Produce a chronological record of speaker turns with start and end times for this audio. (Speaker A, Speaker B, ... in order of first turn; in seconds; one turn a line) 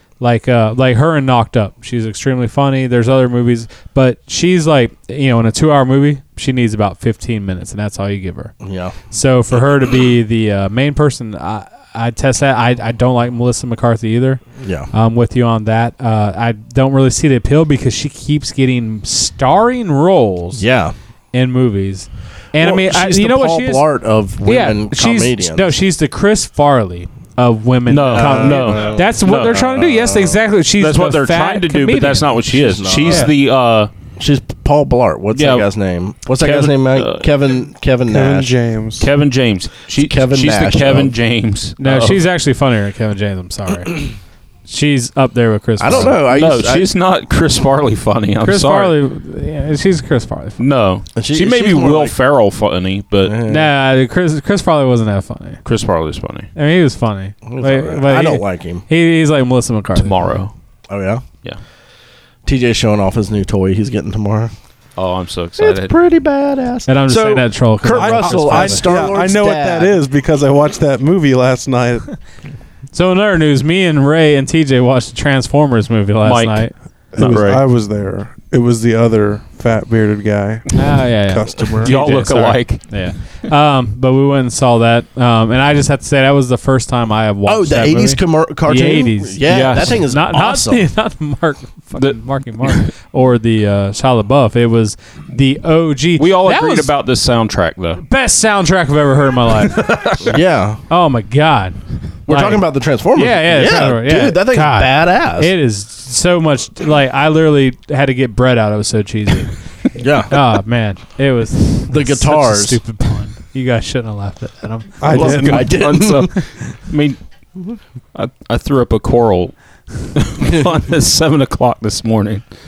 Speaker A: 0.2-8.5
Speaker B: 8.6-8.9
Speaker A: 9.1-20.6
Speaker B: 14.6-14.9
Speaker B: 20.6-20.9
Speaker A: 21.3-23.8
Speaker B: 22.6-25.7
Speaker A: 24.4-32.3
Speaker C: 27.9-29.6
Speaker B: 28.1-30.4
Speaker C: 30.8-33.9
Speaker B: 32.5-33.3
Speaker A: 33.0-33.3
Speaker B: 34.2-38.5
Speaker C: 35.3-35.7
Speaker C: 36.4-37.3
Speaker D: 38.1-39.1
Speaker C: 39.0-42.2
Speaker B: 40.0-41.1
Speaker A: 41.8-44.1
Speaker A: 44.7-46.2
Speaker B: 45.8-46.9
Speaker C: 45.9-48.9
Speaker A: 48.4-50.6
Speaker C: 50.6-53.3
Speaker B: 51.1-52.1
Speaker B: 53.2-53.7
Speaker A: 53.5-55.6
Speaker C: 55.6-56.5
Speaker A: 56.5-60.3
Speaker B: 57.5-58.8
Speaker C: 60.0-60.5
Speaker B: 60.9-61.2
Speaker B: 62.5-64.5
Speaker C: 65.0-65.9
Speaker B: 65.6-70.0
Speaker A: 66.9-68.8
Speaker D: 67.9-72.0
Speaker A: 72.9-76.7
Speaker C: 76.2-77.6
Speaker D: 77.1-81.9
Speaker A: 80.7-96.9
Speaker C: 81.7-82.8
Speaker B: 87.5-90.8
Speaker C: 89.5-90.0
Speaker C: 92.0-92.9
Speaker C: 96.2-98.0
Speaker A: 98.0-100.2
Speaker C: 99.7-100.3
Speaker B: 100.2-100.8
Speaker A: 100.9-109.5
Speaker B: 102.3-105.5
Speaker B: 110.0-110.4
Speaker A: 110.3-115.2
Speaker B: 111.9-112.8
Speaker D: 115.0-115.7
Speaker C: 115.1-117.2
Speaker B: 115.1-116.3
Speaker C: 118.1-122.4